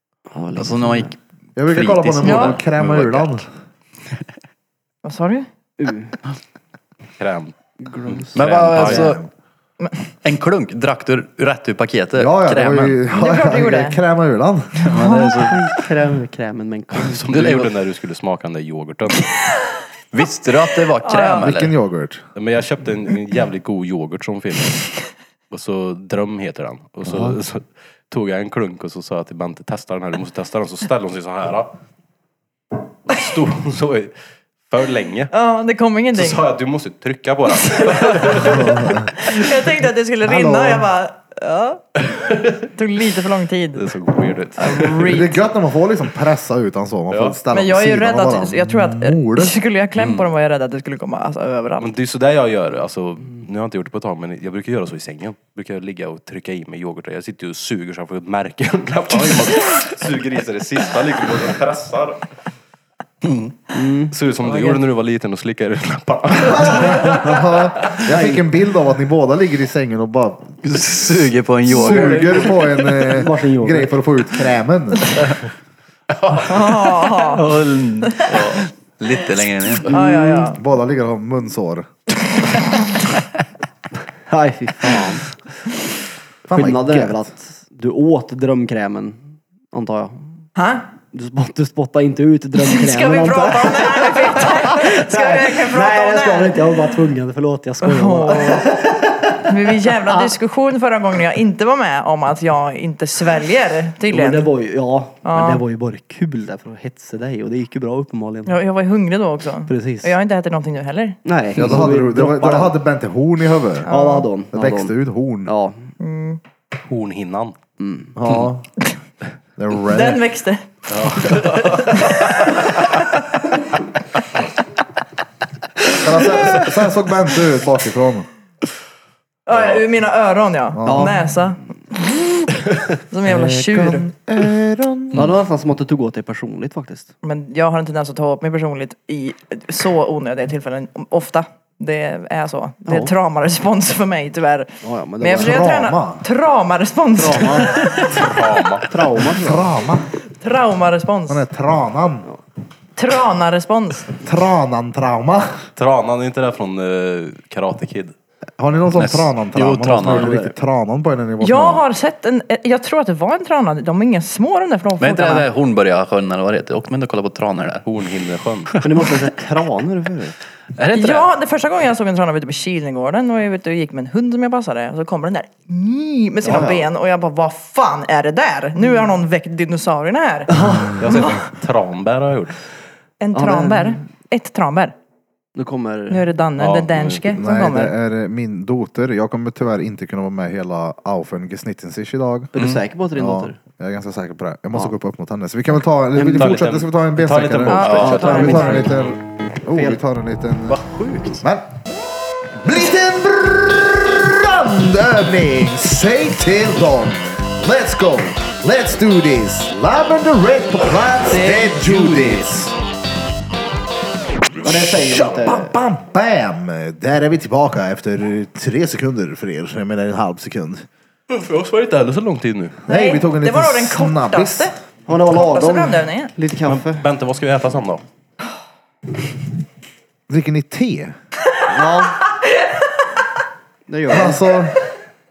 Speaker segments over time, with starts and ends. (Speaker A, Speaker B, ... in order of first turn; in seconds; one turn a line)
Speaker A: 0.3-1.1
Speaker B: 0.6-1.1
Speaker C: 1.6-3.4
Speaker B: 1.7-3.5
Speaker D: 2.2-2.6
Speaker D: 5.0-5.5
Speaker A: 5.8-6.2
Speaker E: 7.2-7.5
Speaker A: 7.8-9.1
Speaker E: 8.1-9.2
Speaker B: 8.3-9.2
Speaker C: 8.9-9.2
Speaker B: 10.2-13.0
Speaker C: 12.2-14.9
Speaker D: 13.1-14.0
Speaker B: 14.8-15.6
Speaker D: 14.9-15.3
Speaker A: 15.3-17.7
Speaker E: 16.9-19.3
Speaker B: 20.1-21.7
Speaker D: 21.0-21.5
Speaker C: 21.4-22.2
Speaker E: 22.3-24.9
Speaker E: 25.5-31.7
Speaker E: 33.1-34.1
Speaker E: 34.7-35.3
Speaker D: 35.3-36.4
Speaker E: 36.1-38.9
Speaker D: 37.9-43.9
Speaker C: 38.3-39.1
Speaker C: 40.2-40.9
Speaker E: 43.7-45.2
Speaker D: 44.6-45.4
Speaker C: 44.8-49.6
Speaker E: 47.1-47.4
Speaker D: 47.5-51.9
Speaker B: 50.0-50.3
Speaker E: 51.8-62.2
Speaker B: 63.2-63.5
Speaker A: 63.7-64.8
Speaker E: 64.1-68.0
Speaker C: 66.5-70.6
Speaker A: 68.1-68.4
Speaker B: 70.6-72.5
Speaker C: 71.7-75.3
Speaker A: 71.7-73.9
Speaker B: 76.2-79.9
Speaker D: 76.5-78.6
Speaker A: 79.9-80.5
Speaker D: 79.9-80.6
Speaker C: 80.5-81.9
Speaker A: 84.3-85.4
Speaker C: 86.5-87.2
Speaker A: 86.5-90.4
Speaker D: 90.5-90.8
Speaker A: 91.1-100.3
Speaker D: 92.6-96.8
Speaker D: 97.8-98.7
Speaker D: 99.4-104.5
Speaker A: 104.1-108.6
Speaker D: 105.2-105.6
Speaker D: 108.5-111.2
Speaker A: 109.7-110.1
Speaker A: 111.2-112.7
Speaker C: 111.5-113.9
Speaker D: 113.8-114.3
Speaker A: 113.9-115.9
Speaker C: 114.5-115.5
Speaker D: 116.0-116.4
Speaker E: 116.8-117.5
Speaker A: 117.8-118.2
Speaker C: 118.1-118.7
Speaker C: 119.6-120.2
Speaker D: 119.9-123.2
Speaker E: 120.9-122.4
Speaker C: 126.0-128.3
Speaker D: 129.4-132.1
Speaker C: 130.7-131.2
Speaker A: 130.8-131.2
Speaker D: 133.1-134.1
Speaker C: 133.2-135.3
Speaker A: 135.1-137.1
Speaker D: 137.2-148.4
Speaker A: 142.8-143.1
Speaker A: 144.8-145.7
Speaker C: 145.3-146.2
Speaker A: 147.2-147.8
Speaker B: 147.3-147.6
Speaker E: 147.8-148.9
Speaker A: 148.9-149.7
Speaker C: 149.3-150.1
Speaker D: 150.3-151.4
Speaker C: 151.3-152.3
Speaker D: 153.0-154.1
Speaker C: 154.2-155.7
Speaker E: 155.8-158.1
Speaker C: 158.6-161.8
Speaker B: 158.9-160.3
Speaker A: 160.0-160.5
Speaker D: 161.4-165.5
Speaker B: 165.0-167.8
Speaker E: 167.8-168.8
Speaker A: 168.8-170.3
Speaker B: 170.8-171.3
Speaker D: 170.9-181.4
Speaker A: 176.4-176.9
Speaker A: 180.5-181.0
Speaker E: 181.0-182.6
Speaker D: 183.2-184.9
Speaker A: 183.3-184.0
Speaker A: 185.6-186.3
Speaker D: 186.1-187.9
Speaker E: 186.6-187.2
Speaker C: 187.3-192.5
Speaker A: 192.5-193.6
Speaker C: 193.1-200.8
Speaker E: 196.1-199.1
Speaker D: 197.7-198.9
Speaker B: 197.8-198.1
Speaker A: 198.0-199.1
Speaker A: 199.7-200.0
Speaker B: 200.7-201.4
Speaker C: 201.4-201.7
Speaker C: 202.6-212.8
Speaker E: 211.3-212.5
Speaker A: 214.6-215.7
Speaker C: 214.7-220.8
Speaker E: 221.3-222.8
Speaker C: 222.9-224.7
Speaker D: 222.9-224.7
Speaker A: 225.1-227.1
Speaker D: 225.3-226.3
Speaker E: 226.6-228.0
Speaker C: 230.3-231.1
Speaker A: 231.7-232.2
Speaker D: 232.4-232.7
Speaker A: 233.9-234.5
Speaker C: 234.1-234.8